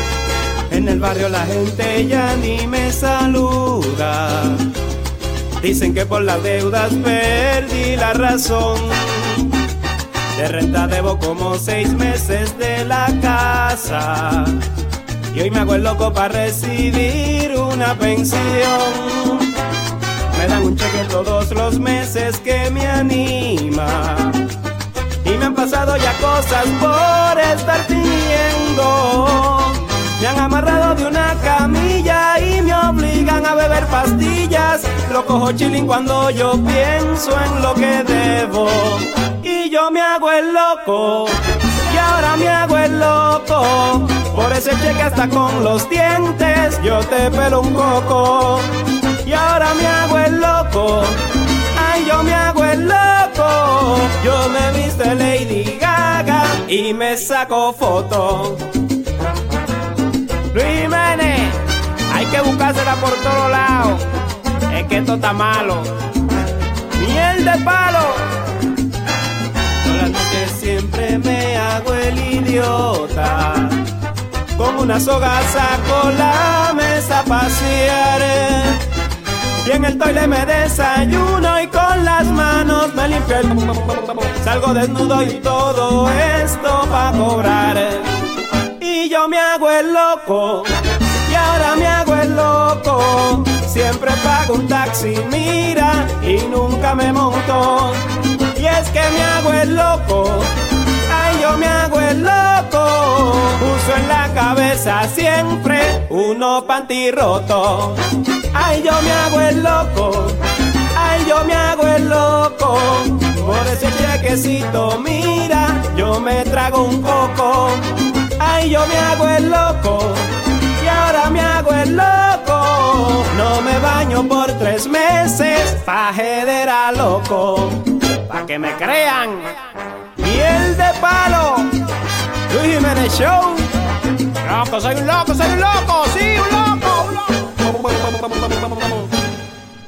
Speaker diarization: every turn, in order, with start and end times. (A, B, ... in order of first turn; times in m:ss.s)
0:00.7-0:04.6 A
0:05.6-0:09.5 A
0:10.3-0:14.6 A
0:15.3-0:19.5 A
0:20.3-0:24.4 A
0:25.2-0:48.7 A
0:49.2-0:51.2 A
0:51.7-0:58.6 A
1:00.5-1:04.0 A
1:04.7-1:05.9 A
1:06.9-1:08.3 A
1:09.8-1:13.8 A
1:14.6-1:18.8 A
1:19.6-1:28.1 A
1:28.8-1:30.7 A
1:31.2-1:38.0 A
1:38.5-1:40.5 A
1:41.1-1:48.0 A
1:48.5-1:50.4 A
1:50.9-2:09.4 A
2:10.2-2:11.7 A
2:12.5-2:13.7 A
2:14.4-2:17.2 A